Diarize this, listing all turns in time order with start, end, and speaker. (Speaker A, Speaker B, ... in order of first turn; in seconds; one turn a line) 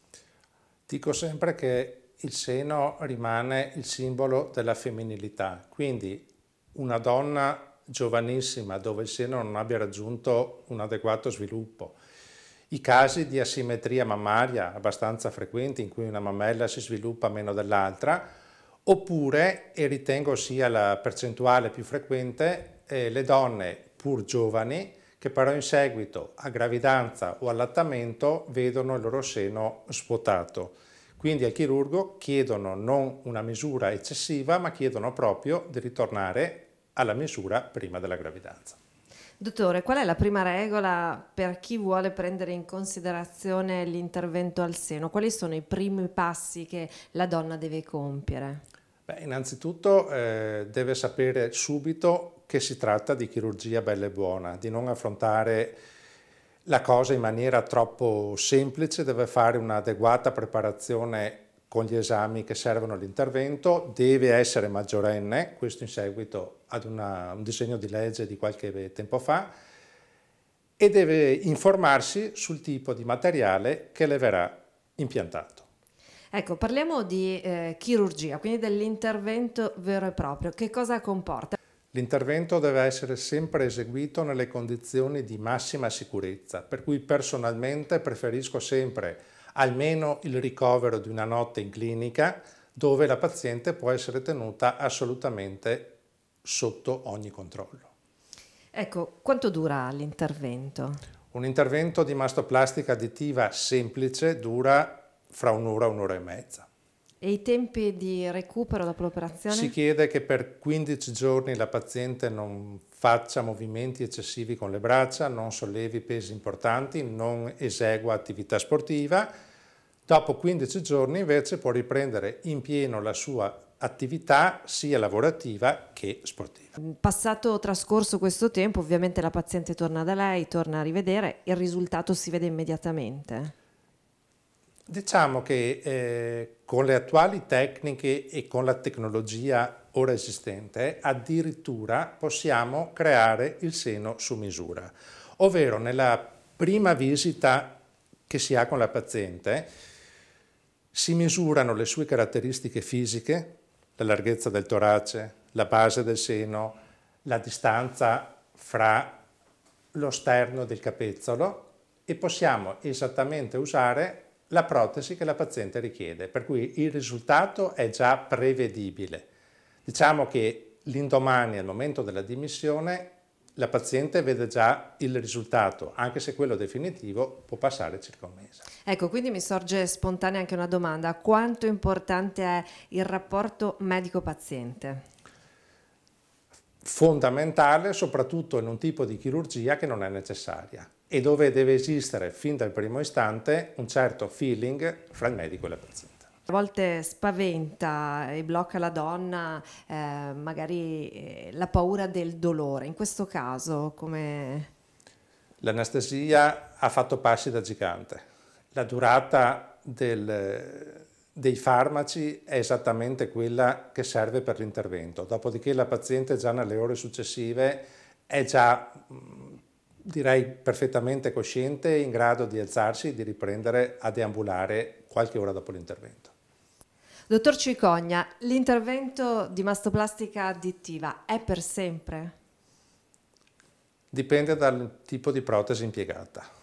Speaker A: 0.9-12.0
Speaker A: 12.7-18.3
Speaker A: 18.9-38.8
Speaker B: 39.4-48.6
Speaker A: 49.1-55.8
Speaker A: 56.6-69.5
Speaker A: 70.8-75.6
Speaker B: 76.3-81.6
Speaker A: 81.9-97.9
Speaker B: 98.7-101.0
Speaker A: 101.3-106.7
Speaker B: 107.2-109.7
Speaker A: 109.5-119.3
Speaker A: 120.1-126.8
Speaker B: 126.8-133.5
Speaker A: 134.9-149.7
Speaker A: 150.9-159.2
Speaker A: 159.9-169.3
Speaker A: 169.8-178.6
Speaker B: 178.8-185.0
Speaker A: 186.8-196.3
Speaker B: 196.5-204.7
Speaker A: 205.6-226.3
Speaker B: 227.3-232.3
Speaker A: 234.1-236.4